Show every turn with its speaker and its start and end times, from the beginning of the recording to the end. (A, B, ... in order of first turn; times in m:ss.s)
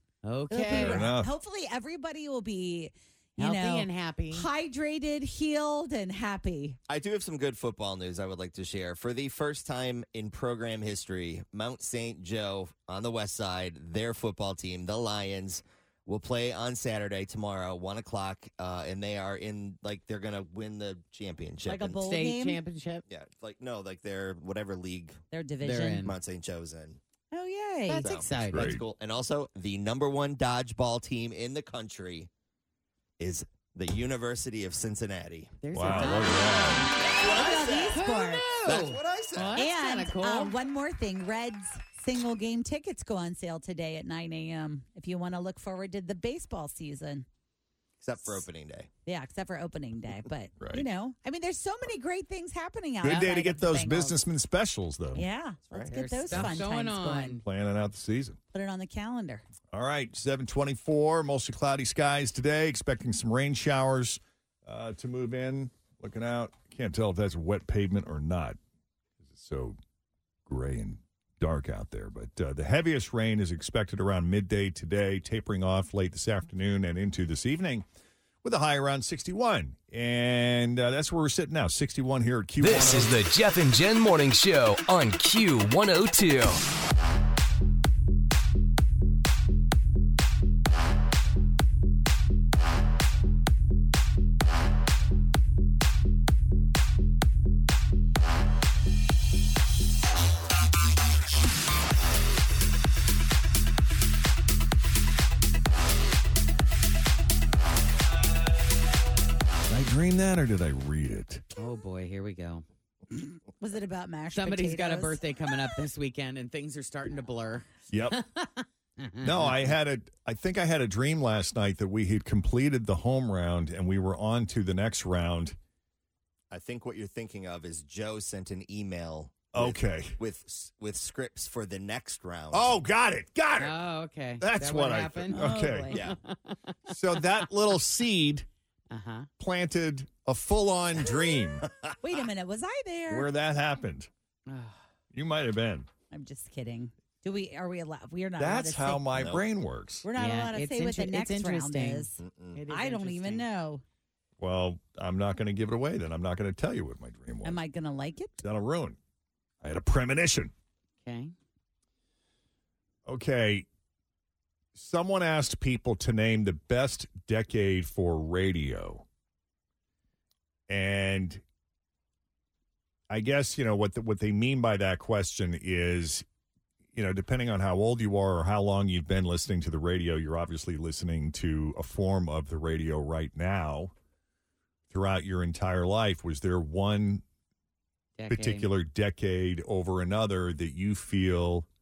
0:00.2-0:01.1 A
0:00.5-0:06.8 B
0:00.7-0:01.3 C
0:03.4-0:04.5 A
0:06.9-0:22.1 D
0:21.6-0:22.6 B
0:21.8-0:23.0 A
0:23.1-0:25.2 D
0:25.3-0:26.1 B
0:25.6-0:26.1 A
0:26.0-0:27.0 D
0:27.3-0:28.1 B
0:27.9-0:28.7 A
0:28.0-0:32.3 D
0:28.5-0:28.8 C
0:33.2-0:36.3 D
0:35.6-0:40.5 A
0:35.7-0:36.9 C
0:37.0-0:38.6 B
0:37.1-0:38.1 D
0:38.6-0:39.6 D
0:39.6-0:47.2 B
0:48.0-0:48.9 D
0:49.0-0:54.2 B
0:50.6-0:50.8 C
0:53.0-0:55.2 C
0:55.1-0:57.4 B
0:55.7-0:56.0 D
0:55.9-0:57.4 A
0:56.3-0:56.6 C
0:57.4-0:58.4 C
0:58.5-0:59.4 B
0:59.7-1:08.6 C
1:09.3-1:09.8 C
1:10.4-1:17.9 C
1:18.4-1:23.1 C
1:22.6-1:26.6 E
1:49.7-1:51.4 C
1:51.6-1:52.6 A
1:53.1-1:55.2 B
1:54.3-1:59.7 A
1:57.9-1:58.2 C
1:59.2-2:05.6 C
2:06.5-2:12.8 D
2:09.5-2:10.2 C
2:12.5-2:13.7 C
2:13.6-2:15.4 A
2:14.4-2:16.0 C
2:15.3-2:16.0 B
2:15.9-2:16.2 D
2:16.0-2:17.4 A
2:16.9-2:18.4 C
2:18.9-2:19.3 A
2:19.4-2:21.7 C
2:22.0-2:23.3 B
2:23.1-2:24.1 C
2:24.5-2:24.8 A
2:25.1-2:25.9 C
2:26.1-2:29.2 B
2:28.4-2:30.1 C
2:29.2-2:29.4 D
2:30.0-2:32.2 B
2:30.2-2:33.4 A
2:32.2-2:32.6 D
2:32.7-2:33.8 B
2:34.4-2:37.6 C
2:37.4-2:38.4 B
2:38.4-2:39.0 C
2:39.6-2:40.5 C
2:41.0-2:41.3 A
2:43.0-2:43.6 C
2:44.7-2:49.0 C
2:50.7-2:51.4 C
2:53.1-2:56.2 C
2:56.9-3:03.9 C
3:04.9-3:07.2 C
3:08.2-3:08.7 A
3:08.3-3:11.7 C